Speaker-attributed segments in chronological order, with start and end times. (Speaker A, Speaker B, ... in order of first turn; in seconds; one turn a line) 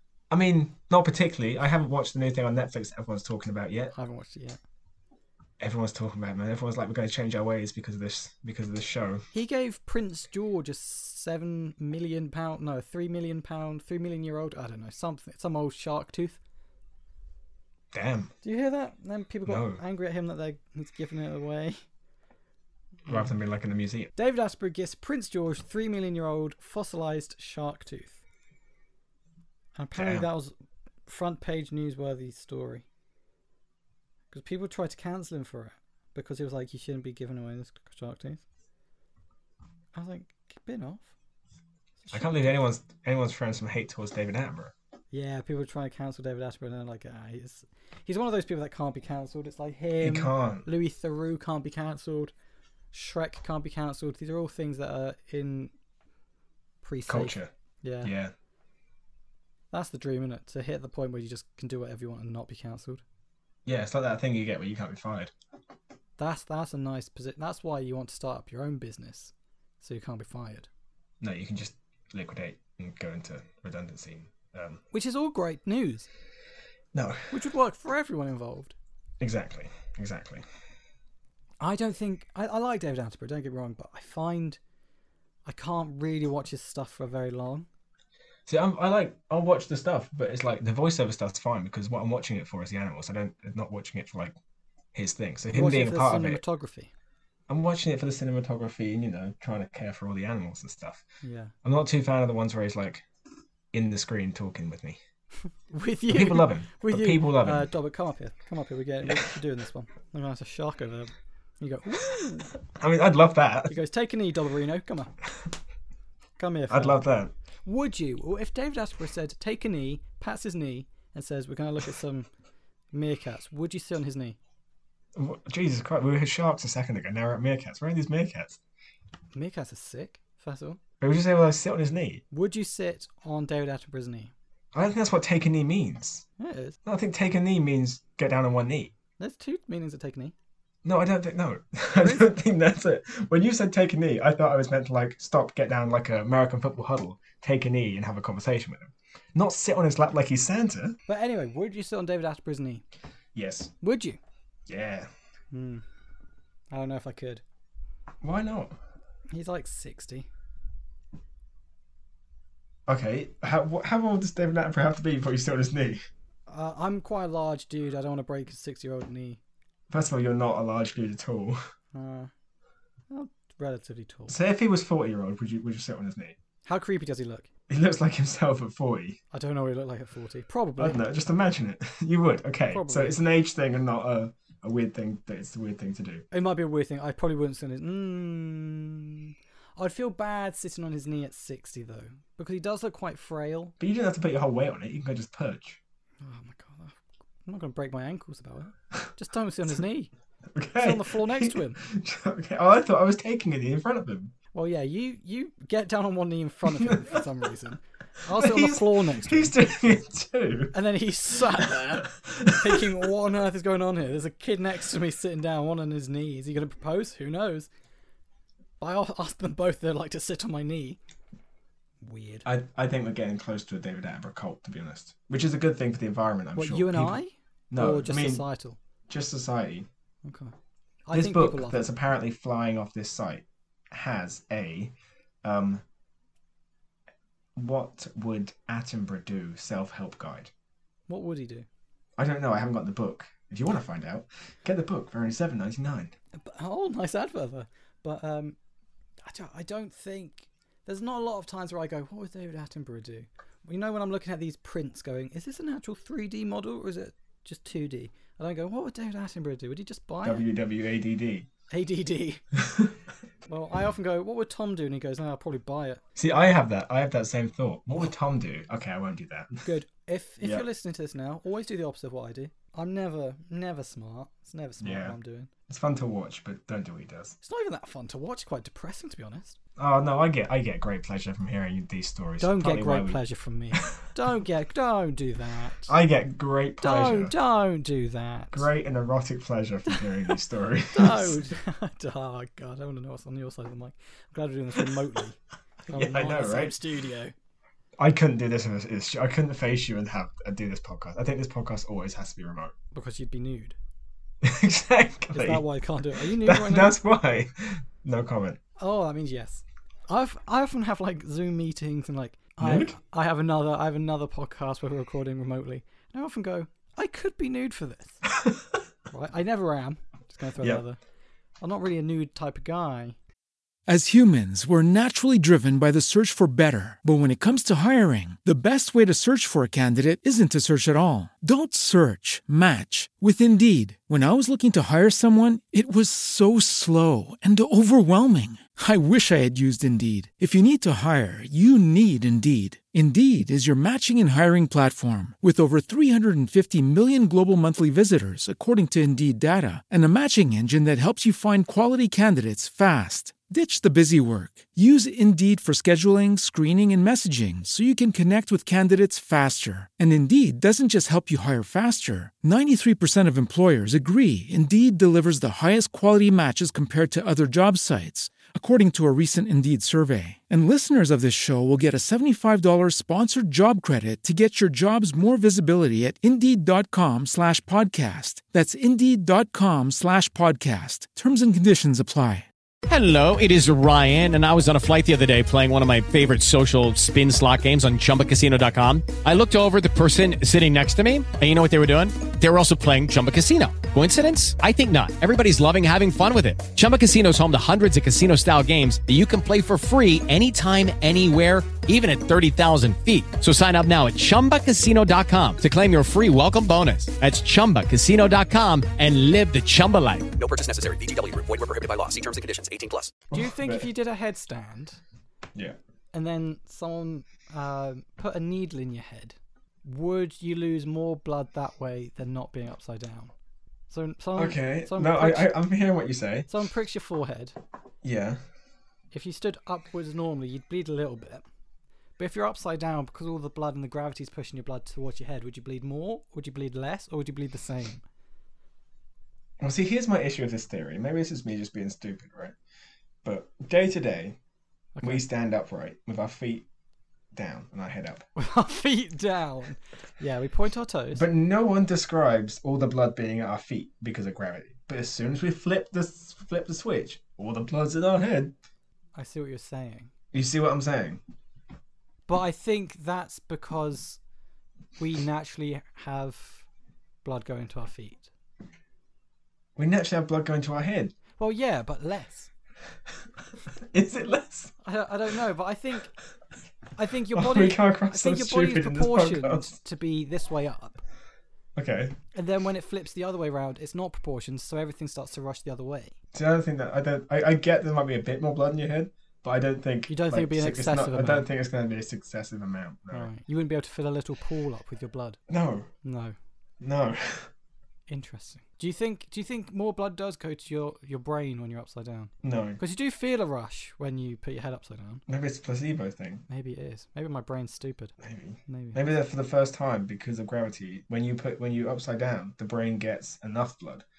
Speaker A: 0.3-3.9
Speaker B: 3.9-4.6
Speaker A: 5.6-9.2
Speaker B: 9.3-16.4
Speaker A: 17.9-18.3
Speaker B: 18.4-21.8
Speaker A: 19.4-19.8
Speaker B: 23.0-23.3
Speaker A: 23.1-24.1
Speaker B: 24.1-28.2
Speaker B: 29.8-30.5
Speaker A: 29.9-30.3
Speaker B: 31.1-32.8
Speaker B: 34.3-38.4
Speaker B: 39.9-41.1
Speaker B: 42.0-42.3
Speaker A: 42.1-44.7
Speaker B: 45.1-52.3
Speaker A: 50.0-50.7
Speaker B: 52.9-55.7
Speaker B: 56.8-58.1
Speaker A: 57.1-57.5
Speaker A: 58.0-58.3
Speaker B: 59.7-63.0
Speaker A: 63.6-65.3
Speaker B: 66.2-70.7
Speaker A: 71.2-74.8
Speaker B: 74.9-76.1
Speaker A: 76.9-77.4
Speaker B: 77.3-78.7
Speaker A: 79.2-80.4
Speaker B: 81.6-84.6
Speaker B: 85.4-87.7
Speaker A: 88.5-94.4
Speaker A: 94.9-96.4
Speaker B: 95.5-96.9
Speaker A: 97.5-101.0
Speaker B: 101.2-101.5
Speaker A: 101.6-103.0
Speaker A: 103.7-105.0
Speaker B: 105.7-112.5
Speaker A: 106.1-107.7
Speaker A: 112.7-113.7
Speaker B: 113.7-115.1
Speaker B: 116.4-117.0
Speaker A: 116.7-117.3
Speaker B: 117.7-122.3
Speaker B: 122.9-124.4
Speaker A: 125.1-128.6
Speaker B: 129.3-130.8
Speaker A: 131.0-132.2
Speaker B: 132.3-134.3
Speaker A: 134.7-136.2
Speaker B: 136.4-136.8
Speaker A: 136.8-138.9
Speaker B: 139.2-140.3
Speaker A: 140.8-151.0
Speaker B: 141.9-142.3
Speaker B: 151.1-152.8
Speaker A: 153.3-153.7
Speaker B: 153.8-154.2
Speaker A: 154.7-155.1
Speaker B: 155.5-155.8
Speaker B: 156.7-157.4
Speaker A: 158.2-158.8
Speaker B: 159.3-160.3
Speaker A: 162.9-166.1
Speaker B: 166.5-169.4
Speaker A: 169.9-171.6
Speaker B: 171.9-172.3
Speaker B: 173.1-174.4
Speaker A: 174.3-176.4
Speaker B: 176.6-177.5
Speaker A: 177.7-179.2
Speaker B: 179.3-181.0
Speaker A: 180.8-186.2
Speaker B: 182.7-183.2
Speaker B: 186.3-193.7
Speaker A: 193.8-195.8
Speaker B: 196.2-200.1
Speaker A: 200.5-204.3
Speaker B: 200.8-201.8
Speaker B: 204.5-209.6
Speaker A: 206.7-207.2
Speaker A: 208.3-210.7
Speaker B: 210.7-217.7
Speaker A: 212.0-212.8
Speaker B: 218.8-221.0
Speaker B: 222.0-222.4
Speaker A: 222.4-227.2
Speaker B: 226.5-228.8
Speaker A: 227.7-228.4
Speaker A: 229.1-229.9
Speaker B: 230.2-230.5
Speaker B: 231.1-231.8
Speaker A: 231.1-235.8
Speaker A: 237.6-240.5
Speaker B: 241.1-241.7
Speaker A: 242.2-246.1
Speaker B: 246.3-248.6
Speaker B: 249.2-260.4
Speaker A: 260.2-261.5
Speaker B: 261.7-262.4
Speaker B: 263.5-266.0
Speaker A: 266.1-269.7
Speaker B: 269.6-275.5
Speaker A: 274.8-275.2
Speaker A: 275.7-277.4
Speaker B: 277.4-279.6
Speaker A: 279.8-283.2
Speaker B: 282.4-285.9
Speaker A: 285.9-287.3
Speaker B: 286.8-288.7
Speaker A: 288.5-291.4
Speaker B: 290.9-295.4
Speaker B: 295.9-297.3
Speaker A: 295.9-296.8
Speaker A: 298.0-302.7
Speaker B: 302.9-303.8
Speaker A: 304.4-308.6
Speaker B: 305.3-307.0
Speaker B: 308.8-318.2
Speaker A: 312.6-313.0
Speaker B: 319.1-321.0
Speaker A: 320.6-320.8
Speaker B: 321.6-323.1
Speaker C: 323.9-382.5
Speaker D: 382.9-410.3
Speaker E: 410.3-413.2
Speaker A: 413.3-413.9
Speaker B: 413.3-415.0
Speaker B: 416.1-423.3
Speaker B: 423.9-425.6
Speaker A: 424.3-426.5
Speaker B: 426.5-427.6
Speaker A: 428.0-428.4
Speaker B: 429.1-431.4
Speaker B: 432.2-438.0
Speaker A: 439.6-442.6
Speaker A: 443.2-444.4
Speaker B: 444.9-445.2
Speaker A: 445.0-446.6
Speaker A: 447.3-448.2
Speaker B: 448.4-451.2
Speaker A: 451.1-458.5
Speaker B: 459.1-460.1
Speaker A: 460.3-461.2
Speaker B: 462.3-464.2
Speaker B: 465.0-466.7
Speaker B: 467.2-468.3
Speaker A: 469.8-471.1
Speaker B: 471.4-472.5
Speaker A: 473.9-474.7
Speaker B: 474.8-476.1
Speaker B: 476.9-481.0
Speaker A: 477.3-479.7
Speaker A: 481.7-482.2
Speaker B: 482.3-486.1
Speaker A: 486.3-493.3
Speaker B: 490.1-491.5
Speaker B: 493.1-495.4
Speaker A: 495.5-495.9
Speaker B: 496.0-496.3
Speaker A: 496.8-497.5
Speaker B: 498.1-505.2
Speaker A: 502.4-502.8
Speaker A: 505.3-506.4
Speaker B: 506.5-508.1
Speaker A: 508.2-514.0
Speaker B: 508.7-509.0